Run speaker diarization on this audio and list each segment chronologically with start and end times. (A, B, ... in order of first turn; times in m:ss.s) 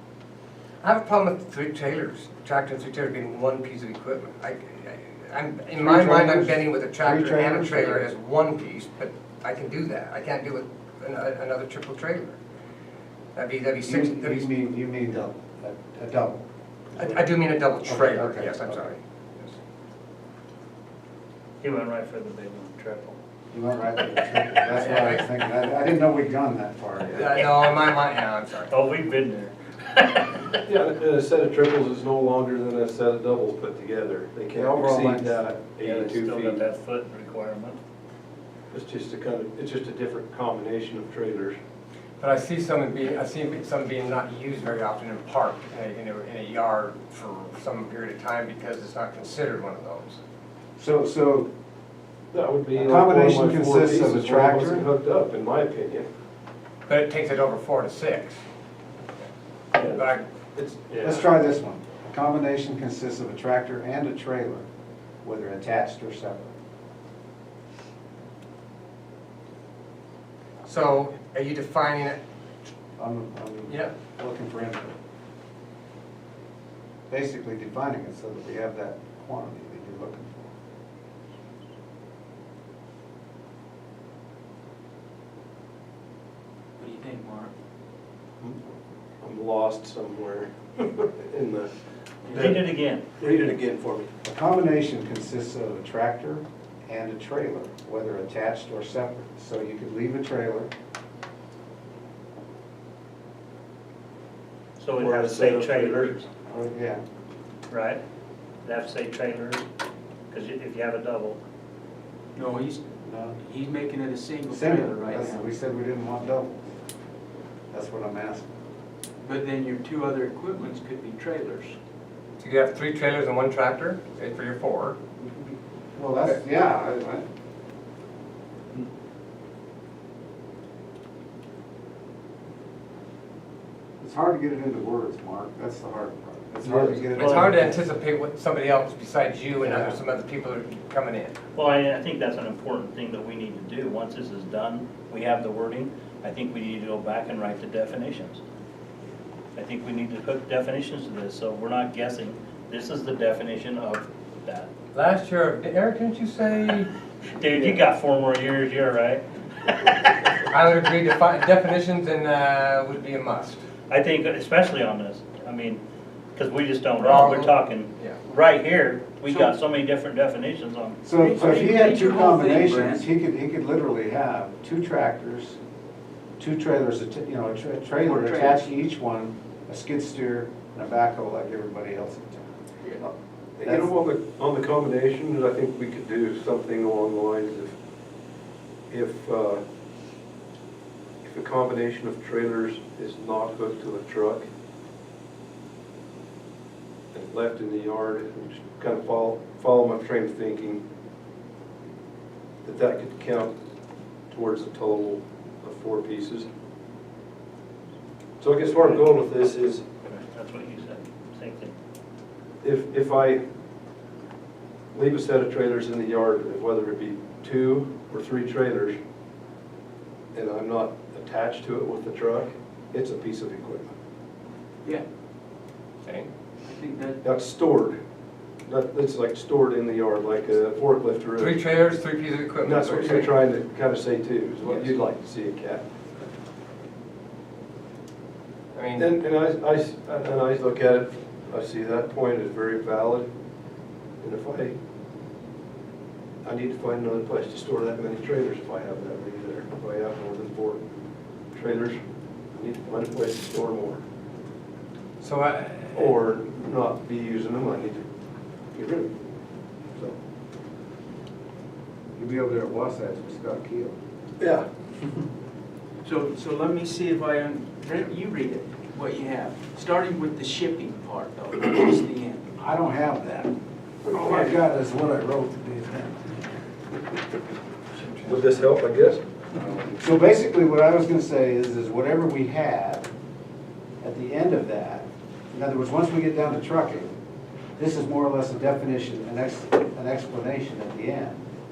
0:00.8-0:12.4 A
0:05.8-0:08.0 B
0:13.4-0:14.5 A
0:13.8-0:17.3 B
0:17.0-0:19.6 A
0:17.8-0:18.9 B
0:21.6-0:23.2 C
0:23.5-0:27.4 B
0:24.7-0:25.2 A
0:27.0-0:28.7 A
0:28.7-0:30.6 C
0:30.6-0:36.6 D
0:34.5-0:35.6 B
0:35.8-0:37.8 C
0:38.7-0:41.6 D
0:42.2-0:50.2 A
0:50.8-0:51.5 B
0:52.3-0:56.1 D
0:52.7-0:54.8 B
0:56.9-0:58.4 A
0:59.8-1:01.3 D
0:59.9-1:00.2 A
1:01.0-1:04.7 B
1:05.2-1:06.5 B
1:10.6-1:12.2 A
1:13.0-1:15.0 B
1:17.1-1:20.5 B
1:26.8-1:27.5 E
1:29.2-1:31.7 D
1:32.3-1:32.6 D
1:32.3-1:33.1 C
1:33.2-1:34.1 D
1:34.2-1:40.7 B
1:44.8-1:46.3 C
1:45.0-1:46.2 D
1:46.5-1:47.0 B
1:47.7-1:48.0 C
1:48.6-1:49.6 C
1:50.3-1:51.4 C
1:52.4-1:52.8 E
1:53.0-1:53.4 B
1:53.4-1:55.5 E
1:54.5-1:56.6 B
1:57.7-1:58.5 B
1:59.2-2:01.8 E
2:02.4-2:05.0 A
2:06.0-2:07.3 B
2:14.0-2:17.8 B
2:16.7-2:21.4 A
2:17.2-2:17.5 C
2:19.6-2:20.0 B
2:21.6-2:28.4 C
2:29.6-2:34.7 C
2:34.9-2:36.9 A
2:37.4-2:40.1 C
2:40.5-2:43.6 A
2:43.9-2:45.8 C
2:46.4-2:51.0 C
2:47.0-2:48.2 A
2:49.2-2:49.6 E
2:51.0-2:55.6 B
2:51.1-2:53.1 E
2:56.4-3:02.5 B
2:58.0-2:58.7 E
3:03.6-3:07.7 D
3:03.6-3:03.9 B
3:08.9-3:09.6 D
3:11.2-3:14.4 D
3:17.1-3:20.8 D
3:22.6-3:23.5 D
3:24.3-3:26.5 D
3:28.4-3:29.9 D
3:30.0-3:31.7 C
3:32.6-3:33.4 D
3:34.9-3:39.0 D
3:40.3-3:43.9 D
3:46.0-3:46.3 A
3:46.6-3:47.2 E
3:47.2-3:48.0 D
3:48.7-3:51.6 D
3:51.4-3:53.3 A
3:52.6-3:55.8 D
3:54.6-3:55.0 E
3:58.7-3:59.1 A
3:59.0-4:03.3 D
4:04.2-4:04.8 D
4:06.4-4:10.9 D
4:11.5-4:12.0 D
4:12.5-4:14.0 D
4:15.2-4:16.1 A
4:15.9-4:18.0 D
4:18.7-4:19.1 D
4:22.2-4:24.0 B
4:24.4-4:24.7 D
4:26.0-4:32.5 E
4:32.6-4:33.6 B
4:34.1-4:34.5 D
4:34.1-4:36.4 B
4:38.0-4:38.4 A
4:38.2-4:39.2 D
4:39.9-4:43.1 B
4:44.0-4:47.1 B
4:47.8-4:51.5 B